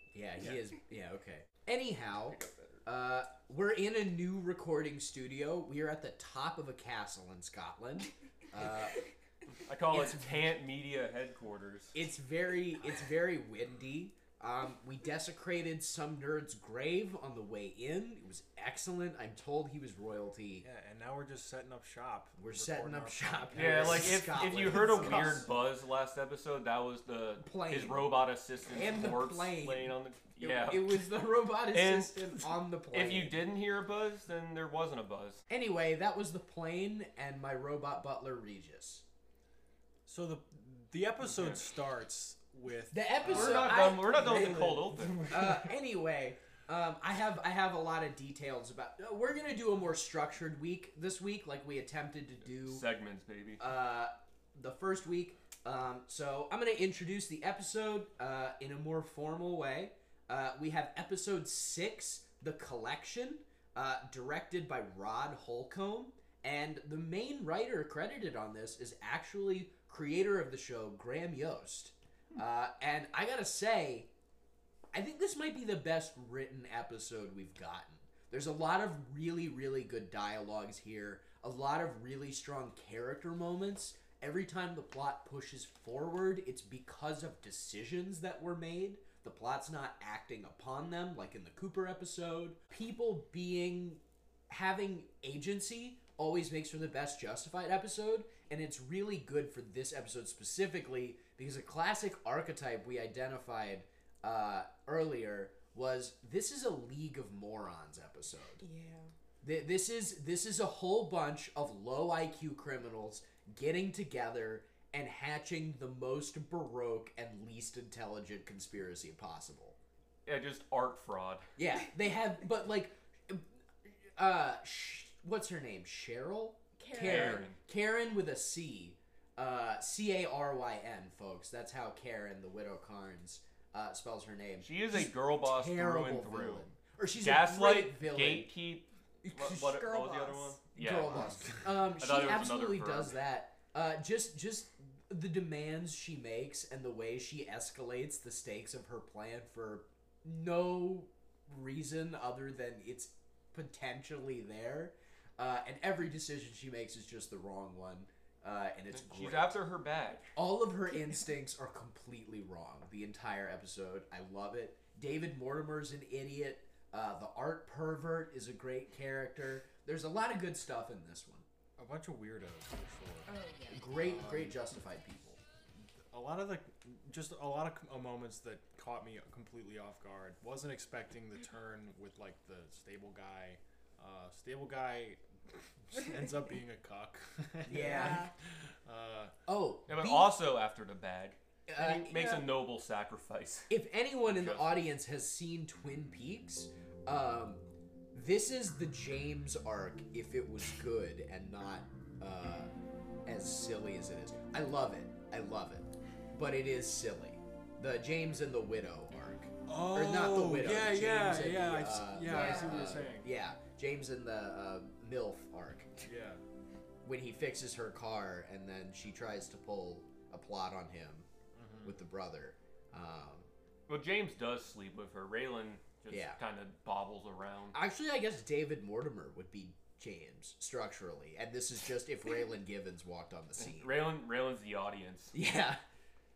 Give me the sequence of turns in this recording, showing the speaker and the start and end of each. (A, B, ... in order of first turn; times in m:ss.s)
0:00.1-0:09.0 A
0:02.3-0:02.8 B
0:09.7-0:12.0 B
0:09.9-0:10.3 A
0:11.9-0:20.6 A
0:20.6-0:25.4 C
0:22.4-0:25.5 A
0:23.5-0:31.1 B
0:27.4-0:33.4 A
0:31.7-0:35.4 B
0:35.5-0:39.0 A
0:40.1-0:45.7 C
0:42.9-0:52.9 A
0:43.2-0:45.4 B
0:52.6-0:53.6 B
0:53.6-1:14.1 A
1:14.9-1:48.6 A
1:48.6-1:49.1 D
1:49.4-1:59.8 A
2:00.3-2:01.5 B
2:01.6-2:18.5 A
2:06.8-2:07.5 D
2:07.0-2:07.6 B
2:14.6-2:16.6 B
2:17.2-2:21.3 B
2:19.2-2:19.8 A
2:19.7-2:20.6 D
2:20.8-2:39.7 A
2:22.0-2:23.2 B
2:38.9-2:40.3 B
2:40.4-2:51.4 A
2:51.8-2:53.3 C
2:53.3-2:53.9 D
2:53.7-2:55.4 A
2:53.9-2:54.6 C
2:56.1-3:05.2 C
3:05.9-3:08.3 C
3:07.7-3:08.3 A
3:07.7-3:08.3 D
3:08.9-3:09.3 C
3:09.5-3:10.4 A
3:09.9-3:13.7 B
3:11.7-3:12.4 A
3:12.1-3:12.4 D
3:13.7-3:22.7 A
3:14.3-3:14.9 B
3:23.2-3:36.1 A
3:29.7-3:33.3 C
3:32.3-3:33.0 D
3:36.0-3:36.4 C
3:37.0-3:41.3 A
3:41.6-3:42.0 C
3:41.8-3:43.5 A
3:43.9-3:47.8 B
3:46.1-3:46.4 A
3:47.7-3:54.1 A
3:53.6-3:55.3 B
3:55.3-3:55.8 A